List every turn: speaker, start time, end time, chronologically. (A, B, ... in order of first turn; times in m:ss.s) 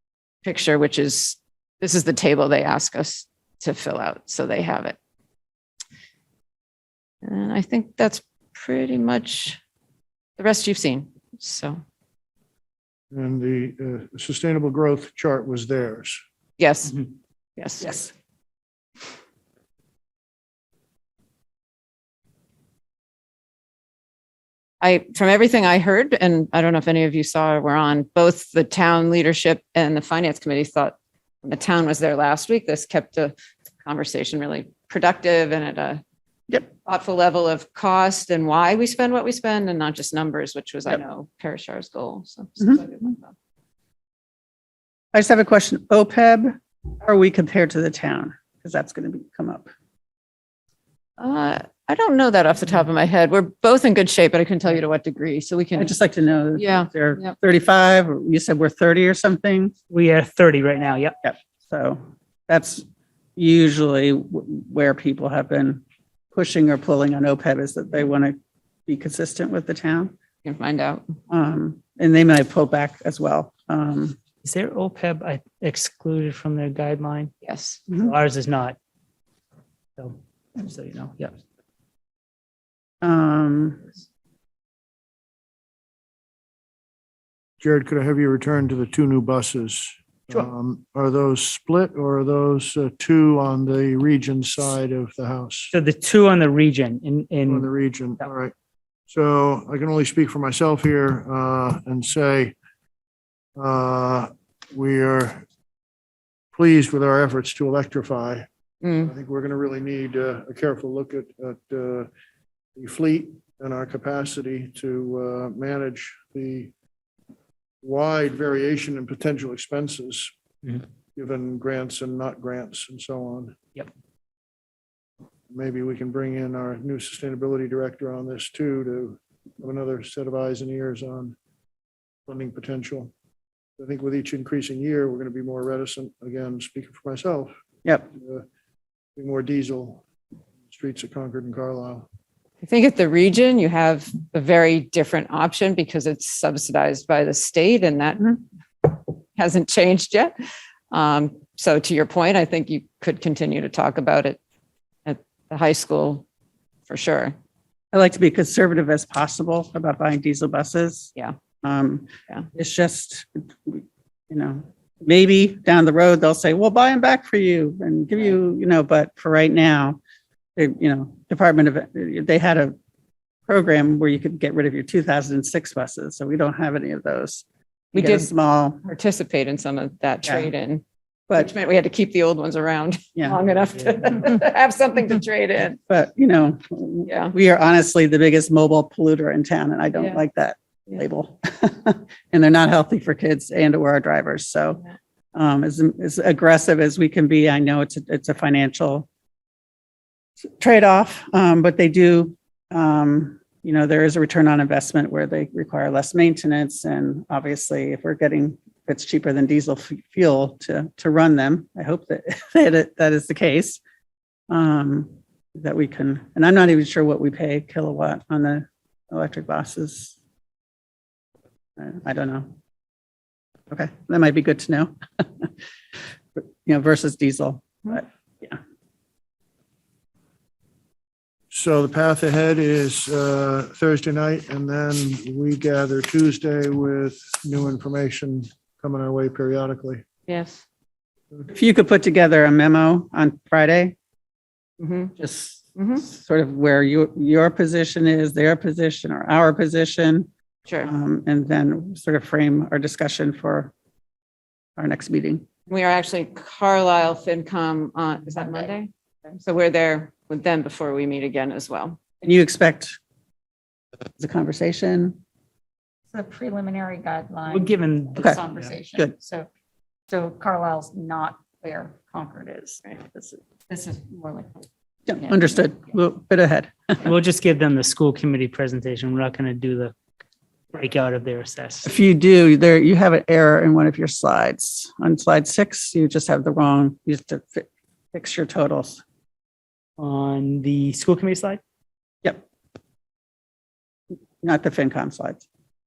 0:00.4-0:05.0 A
0:07.2-0:09.6 A
0:10.4-0:11.8 A
0:13.1-0:16.2 B
0:16.6-0:17.0 A
0:17.6-0:18.0 A
0:24.8-0:36.0 A
0:36.8-0:43.3 A
0:45.1-0:49.7 C
0:51.2-0:55.9 A
0:55.8-0:59.7 C
0:56.5-0:57.4 A
0:59.9-1:01.1 D
1:01.2-1:02.8 C
1:03.4-1:05.8 C
1:06.3-1:10.1 C
1:10.4-1:11.1 A
1:11.3-1:14.2 C
1:14.4-1:17.3 D
1:17.4-1:17.8 A
1:17.9-1:18.8 D
1:20.0-1:21.4 D
1:23.0-1:23.8 C
1:27.6-1:35.7 B
1:35.7-1:37.7 D
1:37.5-1:38.5 B
1:39.1-1:42.6 B
1:43.6-1:45.4 B
1:46.5-1:48.5 B
1:48.8-1:49.1 A
1:49.0-1:52.1 B
1:52.8-1:56.7 B
1:57.8-2:00.3 B
2:01.1-2:03.6 B
2:05.5-2:11.3 B
2:12.2-2:13.1 B
2:13.8-2:17.5 B
2:18.1-2:18.4 B
2:19.2-2:20.0 B
2:20.6-2:22.1 B
2:22.6-2:30.3 A
2:30.9-2:34.4 A
2:35.0-2:36.2 A
2:36.9-2:37.3 A
2:37.9-2:50.0 C
2:50.6-2:52.8 C
2:53.5-2:58.8 C
2:57.9-2:58.3 A
2:58.8-3:05.8 A
3:00.2-3:00.5 C
3:05.9-3:14.8 C
3:07.0-3:07.3 A
3:15.3-3:19.1 C
3:20.6-3:33.8 C
3:34.5-3:40.2 C
3:41.8-3:42.5 C
3:43.7-3:45.5 C
3:46.4-3:48.6 C
3:51.5-4:00.0 B
4:00.3-4:00.6 A
4:01.5-4:03.9 C
4:04.8-4:05.1 A
4:05.2-4:10.3 C
4:05.8-4:06.0 A
4:10.8-4:13.7 C
4:14.8-4:15.4 C
4:15.7-4:22.0 A
4:22.2-4:23.0 C
4:24.2-4:25.2 C
4:26.1-4:27.7 E
4:27.5-4:28.8 D
4:28.2-4:28.4 C
4:28.3-4:29.5 E
4:30.1-4:34.6 E
4:35.1-4:37.1 C
4:35.2-4:35.6 E
4:37.0-4:39.9 D
4:40.7-4:41.9 D
4:41.8-4:49.0 C
4:50.0-4:51.6 D
4:54.4-4:55.4 C